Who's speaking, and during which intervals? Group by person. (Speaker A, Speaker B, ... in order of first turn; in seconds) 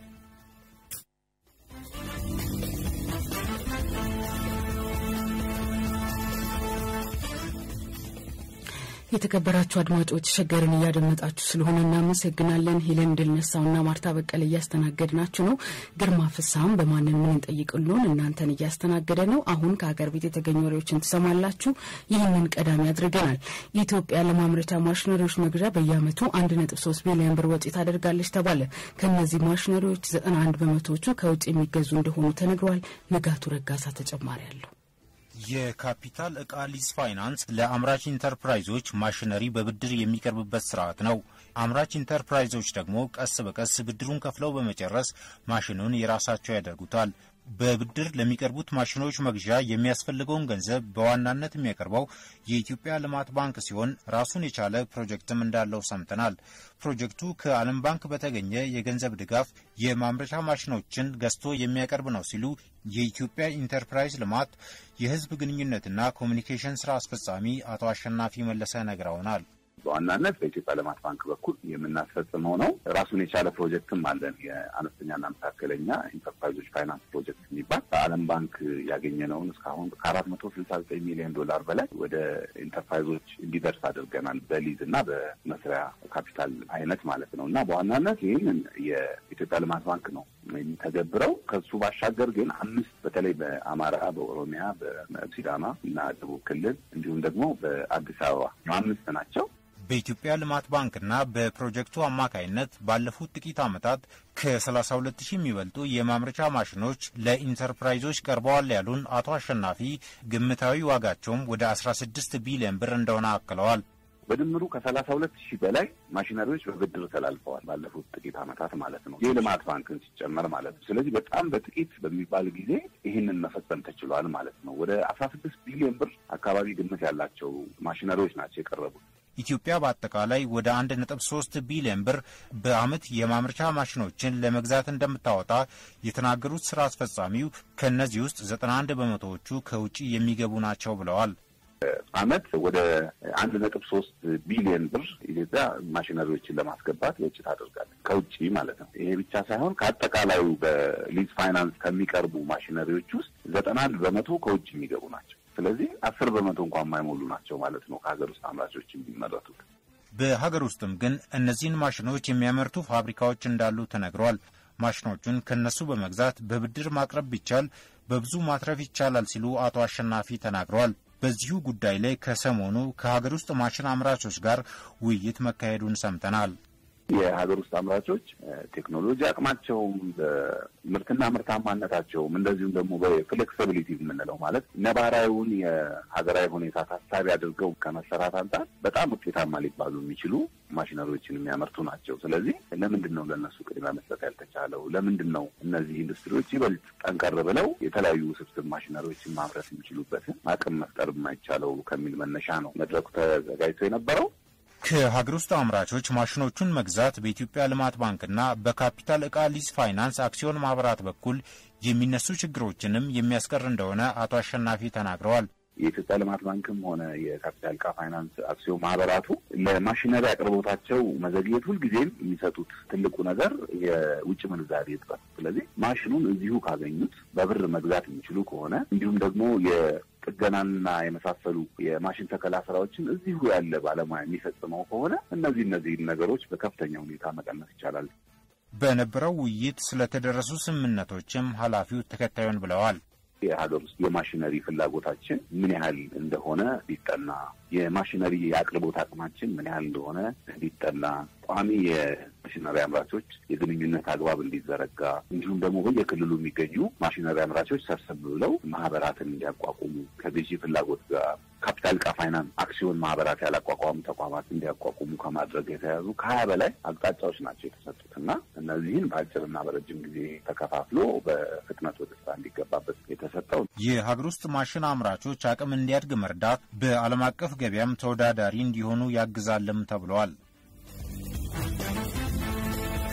Speaker A: 9.1-34.7
Speaker B: 35.4-69.4, 99.9-113.8, 129.4-141.3, 160.1-176.5, 204.8-215.5, 238.8-243.0, 273.8-280.3
Speaker C: 69.8-99.5, 114.3-129.0, 142.1-159.6, 177.1-204.3, 215.8-238.1, 243.4-273.7